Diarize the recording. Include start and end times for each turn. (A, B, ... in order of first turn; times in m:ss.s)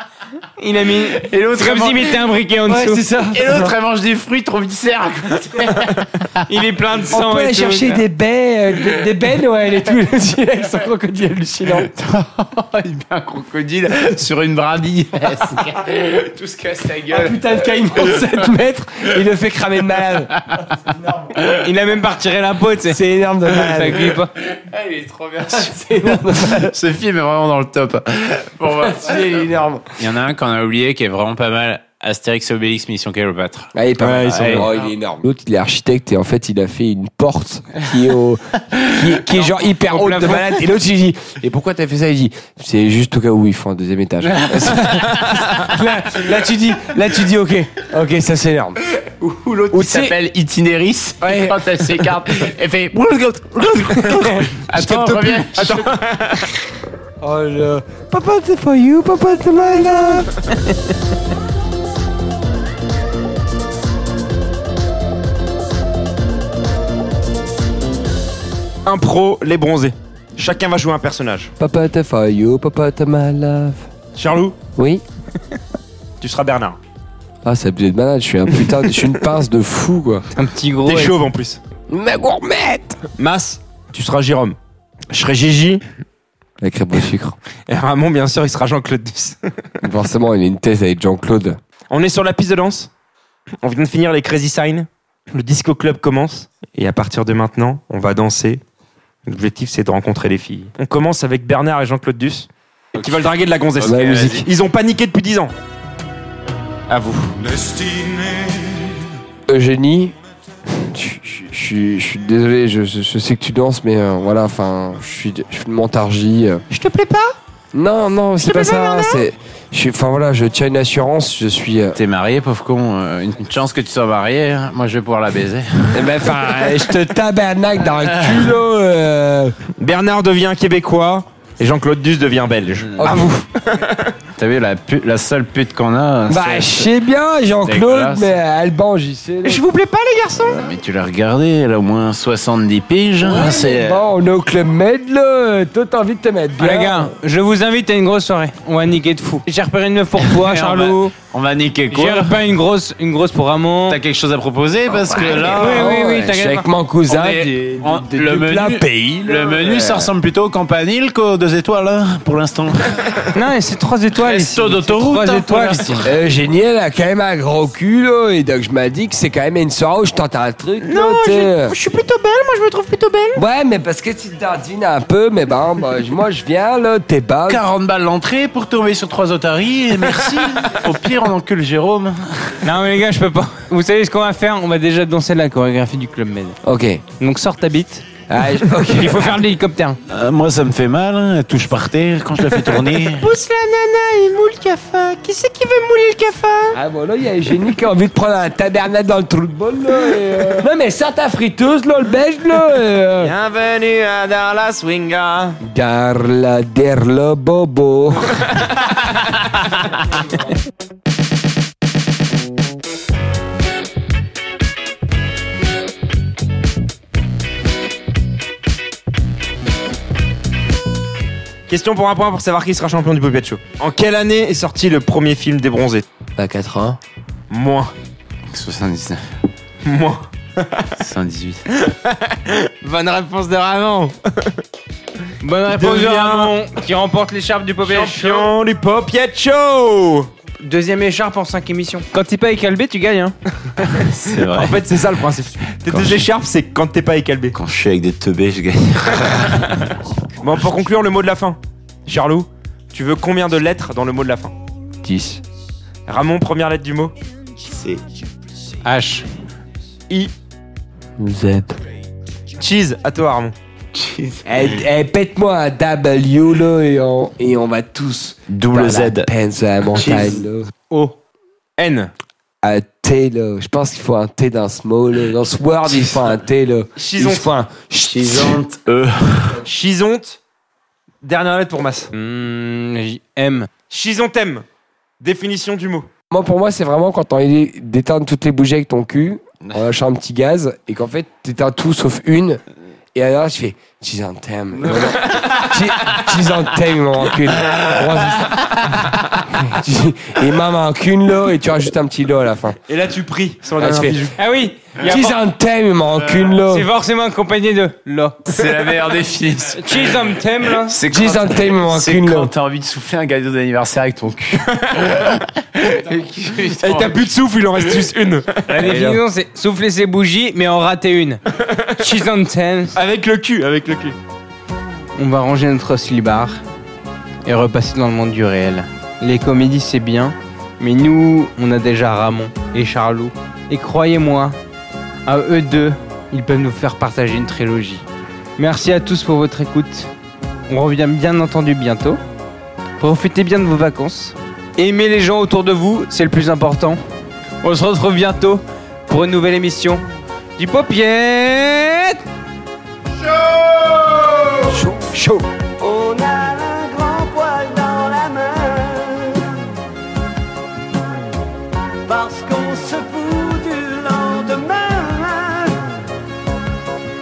0:00.6-0:03.0 A
0:01.1-0:02.3 B
0:02.7-0:03.7 C
0:03.3-0:06.4 B
0:06.5-0:08.0 A
0:07.1-0:11.9 C
0:11.7-0:18.2 B
0:17.1-0:20.3 C
0:20.5-0:21.6 B
0:21.5-0:24.3 A
0:22.9-0:24.2 C
0:24.4-0:33.7 B
0:25.5-0:26.7 C
0:28.8-0:29.9 C
0:33.7-0:48.8 C
0:34.0-0:34.7 D
0:34.3-0:34.7 B
0:39.6-0:40.6 A
0:44.2-0:45.4 B
0:49.2-0:55.9 B
0:49.7-0:50.2 C
0:51.2-0:51.7 C
0:54.8-0:56.5 D
0:57.2-1:00.3 C
1:08.8-1:11.5 D
1:11.6-1:13.8 C
1:14.2-1:14.6 D
1:14.7-1:15.0 C
1:16.2-1:16.8 D
1:17.4-1:20.2 C
1:20.3-1:21.2 A
1:20.8-1:21.6 D
1:21.9-1:23.0 C
1:23.2-1:24.6 D
1:25.1-1:25.8 D
1:26.6-1:27.4 C
1:27.6-1:29.6 D
1:29.8-1:31.6 C
1:31.9-1:32.9 D
1:33.6-1:38.6 D
1:39.2-1:45.5 D
1:43.8-1:44.4 B
1:43.8-1:44.5 C
1:46.9-1:47.7 D
1:49.5-1:50.2 C
1:50.7-1:56.6 C
1:56.7-1:57.3 D
1:57.7-2:02.0 C
1:58.4-1:59.2 A
2:01.9-2:06.9 B
2:05.9-2:09.6 C
2:08.0-2:08.5 B
2:09.8-2:14.1 D
2:13.0-2:13.4 C
2:14.4-2:16.9 B
2:16.3-2:19.6 C
2:17.6-2:18.4 B
2:19.4-2:20.6 D
2:20.4-2:24.0 B
2:23.2-2:27.1 C
2:26.6-2:31.1 A
2:30.2-2:32.4 B
2:31.9-2:34.0 A
2:33.9-2:36.0 B
2:34.9-2:40.1 C
2:35.5-2:36.6 A
2:37.1-2:43.3 B
2:43.3-2:46.0 A
2:44.2-2:46.1 B
2:46.0-2:51.8 C
2:50.9-2:53.4 A
2:53.3-2:57.6 C
2:57.5-3:02.6 B
3:02.6-3:06.6 A
3:06.6-3:07.0 C
3:07.2-3:08.0 A
3:08.3-3:09.4 C
3:09.0-3:10.0 A
3:10.1-3:13.3 B
3:13.1-3:16.8 A
3:16.7-3:23.3 C
3:23.3-3:25.5 D
3:25.6-3:28.5 C
3:41.7-3:46.0 D
3:46.4-3:47.0 C
3:47.5-3:47.9 D
3:48.5-3:49.2 B
3:49.8-3:50.9 D
3:51.0-3:51.6 B
3:51.8-3:54.5 D
3:55.4-3:58.5 A
3:55.7-3:56.5 D
3:57.8-4:00.3 D
4:00.6-4:03.3 A
4:03.9-4:04.9 B
4:04.4-4:07.5 D
4:05.9-4:06.2 B
4:07.5-4:09.9 B
4:10.4-4:14.5 D
4:15.0-4:15.4 C
4:16.1-4:17.1 D
4:17.7-4:18.0 B
4:18.8-4:19.2 A
4:21.2-4:21.8 C
4:22.6-4:23.5 D
4:23.9-4:24.4 B
4:24.4-4:30.7 C
4:28.5-4:29.3 B
4:30.0-4:30.4 B
4:31.8-4:32.1 D
4:32.6-4:38.6 C
4:37.0-4:37.5 D
4:38.0-4:39.6 B
4:39.6-4:40.4 D
4:41.2-4:42.1 D
4:42.1-4:43.7 A
4:43.9-4:44.6 D
4:45.2-4:46.1 D
4:46.3-4:52.6 C
4:53.1-5:02.8 C
5:02.9-5:04.3 D
5:03.8-5:04.3 C
5:04.4-5:05.4 A
5:05.0-5:06.9 C
5:06.6-5:08.4 A
5:08.5-5:10.1 B
5:09.7-5:11.0 A
5:10.9-5:17.3 B
5:11.1-5:12.5 C
5:16.8-5:18.6 D
5:18.7-5:21.4 A
5:18.8-5:19.2 C
5:22.0-5:23.0 A
5:22.9-5:24.1 D
5:25.1-5:26.6 A
5:27.4-5:34.6 A
5:35.2-5:38.0 A
5:38.6-5:40.1 A
5:40.7-5:42.2 A
5:43.0-5:47.0 A
5:47.6-5:50.0 A
5:50.6-5:52.2 A
5:54.7-5:55.5 C
5:55.8-5:59.5 E
6:02.0-6:05.8 E